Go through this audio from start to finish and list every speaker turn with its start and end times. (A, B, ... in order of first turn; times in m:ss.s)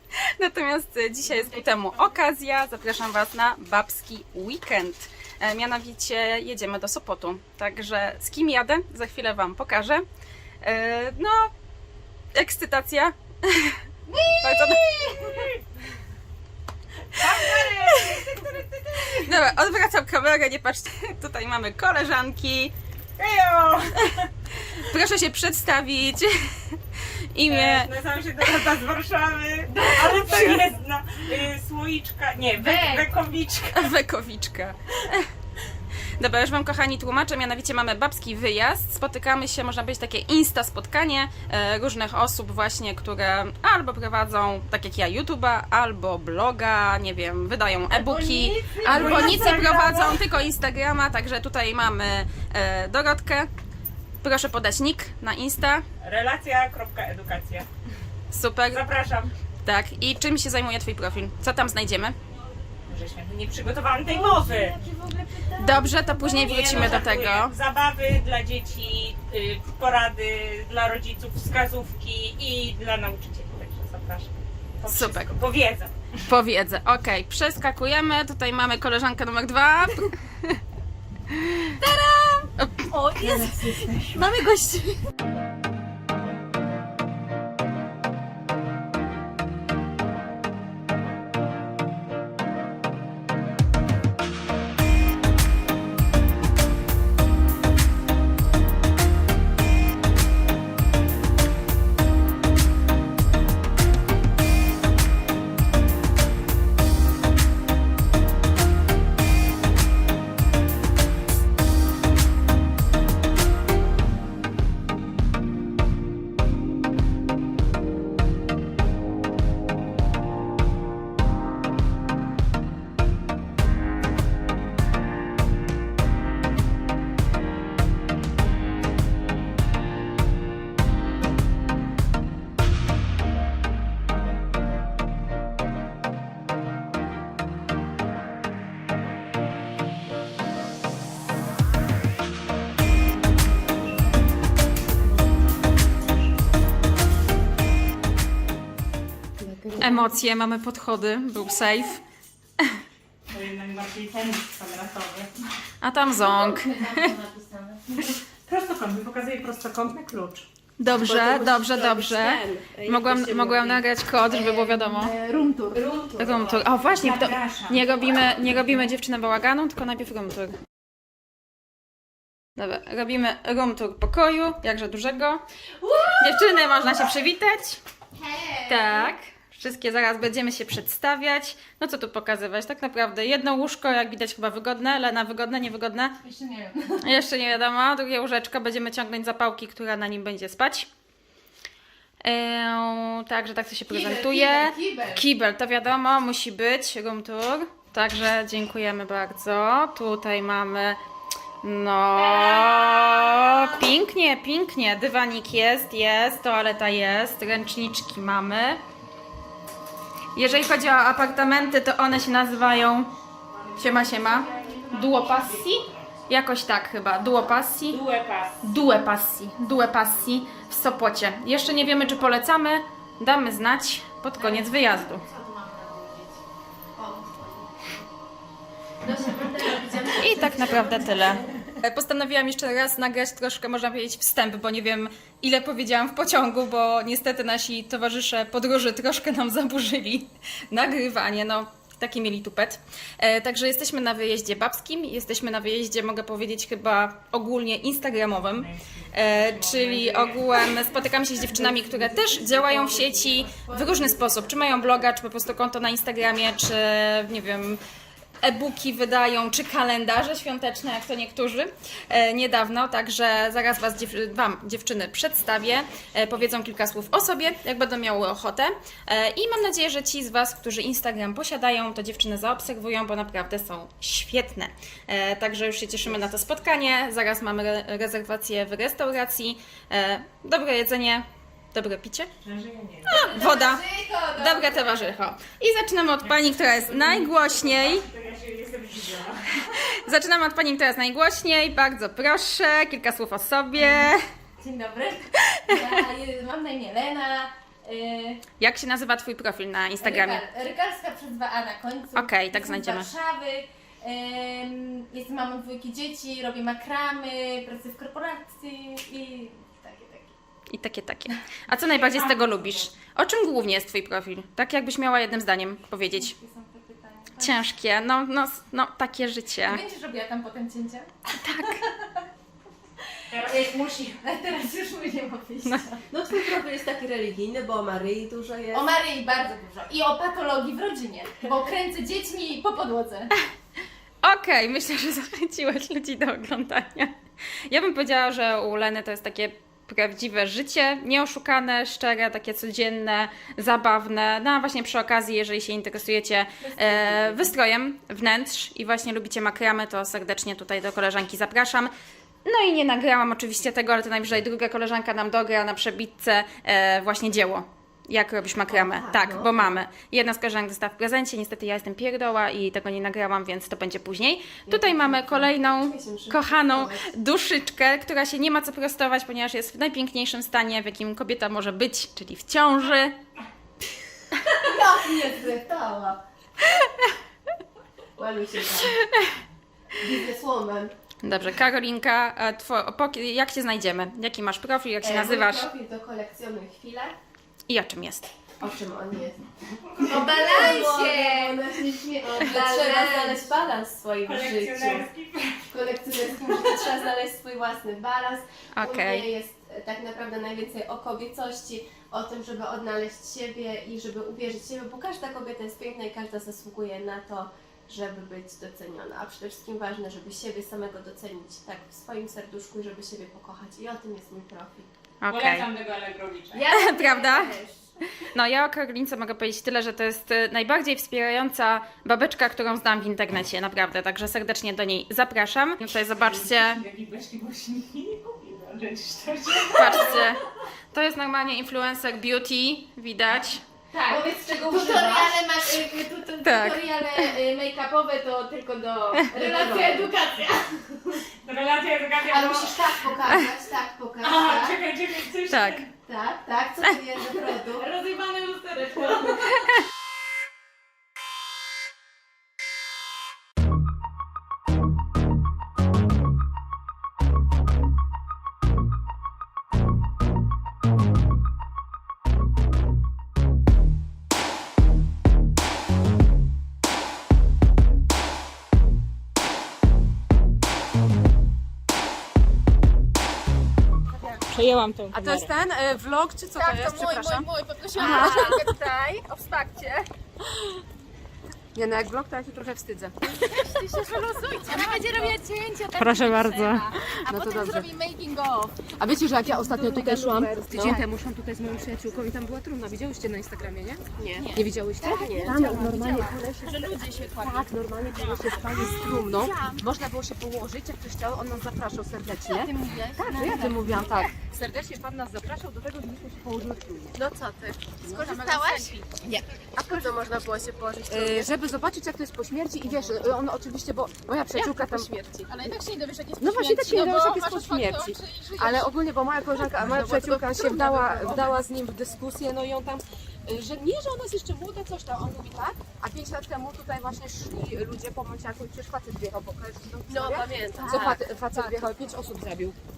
0:00.4-0:10.0 A
0:10.6-0:11.5 A
0:12.3-0:13.8 A
0:14.4-0:15.5 A
0:17.1-0:19.3 B
0:17.4-0:18.4 A
0:19.1-0:22.7 A
0:23.2-0:24.1 B
0:24.1-0:28.8 A
0:27.4-0:33.9 B
0:29.8-0:30.6 A
0:32.6-0:33.0 C
0:33.7-0:35.3 A
0:36.2-0:53.5 A
0:47.9-0:49.4 C
0:48.7-0:50.2 B
0:54.2-0:55.8 A
0:56.0-0:57.7 B
0:58.3-0:58.8 A
0:58.7-0:59.3 B
0:59.6-1:02.1 A
1:02.9-1:04.8 B
1:04.1-1:06.7 C
1:05.6-1:07.5 A
1:06.3-1:15.9 B
1:14.8-1:15.3 A
1:16.3-1:20.6 A
1:21.3-1:21.6 A
1:21.8-1:25.0 C
2:29.5-2:29.9 C
2:29.8-2:32.0 A
2:33.3-2:35.3 B
2:35.8-2:37.1 A
2:36.2-2:37.8 C
2:38.5-2:40.4 B
2:40.8-2:45.1 A
2:40.9-2:43.8 D
2:44.3-2:46.4 C
2:46.2-2:50.5 A
2:46.9-2:48.8 B
2:52.6-2:55.4 A
2:55.8-2:56.9 C
2:56.1-2:57.8 A
2:58.2-2:59.1 C
2:58.6-3:06.2 A
3:06.2-3:07.0 C
3:07.0-3:10.9 A
3:12.2-3:21.0 A
3:13.9-3:15.2 C
3:21.6-3:28.8 A
3:22.2-3:23.8 C
3:30.3-3:33.1 A
3:33.8-3:38.0 A
3:33.8-3:35.8 B
3:37.9-3:38.6 B
3:38.6-3:45.2 A
3:44.4-3:46.0 C
3:45.3-3:46.2 D
3:47.0-3:48.1 D
3:49.0-3:51.4 D
3:50.2-4:17.8 A
4:08.5-4:10.7 B
4:11.8-4:15.1 D
4:18.4-4:42.3 A
4:42.4-4:43.2 B
4:43.1-4:48.0 A
4:43.1-4:45.0 C
4:46.2-4:49.6 B
4:49.7-4:54.2 A
4:53.8-4:58.4 C
4:58.6-5:00.4 A
5:00.0-5:10.3 C
5:02.1-5:03.1 A
5:10.7-5:16.3 A
5:11.7-5:12.4 C
5:16.1-5:17.6 C
5:17.4-5:19.8 A
5:19.6-5:22.2 C
5:21.3-5:21.8 A
5:23.3-5:24.2 B
5:23.4-5:26.0 C
5:26.1-5:28.9 D
5:28.7-5:33.3 C
5:34.2-5:37.1 A
5:37.7-5:51.9 A
5:46.8-5:47.4 C
5:52.4-6:13.1 A
5:58.7-5:59.8 D
6:04.7-6:07.1 D
6:14.6-6:16.2 D
6:18.2-6:19.0 D
6:19.9-6:20.9 D
6:21.2-6:25.7 A
6:25.0-6:27.1 D
6:27.7-6:28.3 A
6:28.6-6:29.4 D
6:30.0-6:30.8 B
6:30.0-6:35.1 D
6:30.0-6:31.6 C
6:32.4-6:33.4 C
6:34.2-6:35.6 B
6:35.7-6:54.9 D
6:38.8-6:39.3 A
6:55.2-6:55.7 A
6:55.3-6:56.7 B
6:56.6-6:57.6 D
6:56.7-6:57.5 A
6:58.2-7:06.8 A
7:06.2-7:10.3 B
7:09.7-7:10.4 A
7:10.9-7:13.6 A
7:13.9-7:21.2 C
7:14.2-7:15.3 D
7:14.4-7:15.3 E
7:16.4-7:17.3 A
7:19.4-7:19.8 D
7:19.4-7:20.0 E
7:21.4-7:22.9 B
7:22.3-7:24.8 D
7:24.2-7:25.9 B
7:25.5-7:25.9 A
7:26.1-7:27.8 D
7:27.7-7:29.4 C
7:54.5-7:55.5 B
7:55.1-7:58.8 E
7:56.6-8:00.0 C
7:58.0-7:59.1 D
8:01.7-8:03.2 E
8:03.4-8:11.0 C
8:06.0-8:06.9 B
8:07.3-8:07.9 E
8:09.0-8:27.1 E
8:10.0-8:10.8 D
8:14.2-8:15.8 D
8:14.4-8:16.9 C
8:16.7-8:17.6 A
8:22.5-8:24.0 C
8:27.2-8:28.9 D
8:28.0-8:28.3 E
8:28.3-8:29.0 A
8:28.4-8:28.9 C
8:29.1-8:30.1 E
8:29.7-8:31.6 D
8:31.1-8:35.5 E
8:34.5-8:38.6 A
8:36.4-8:52.8 E
8:39.8-8:41.4 D
8:50.1-8:51.8 D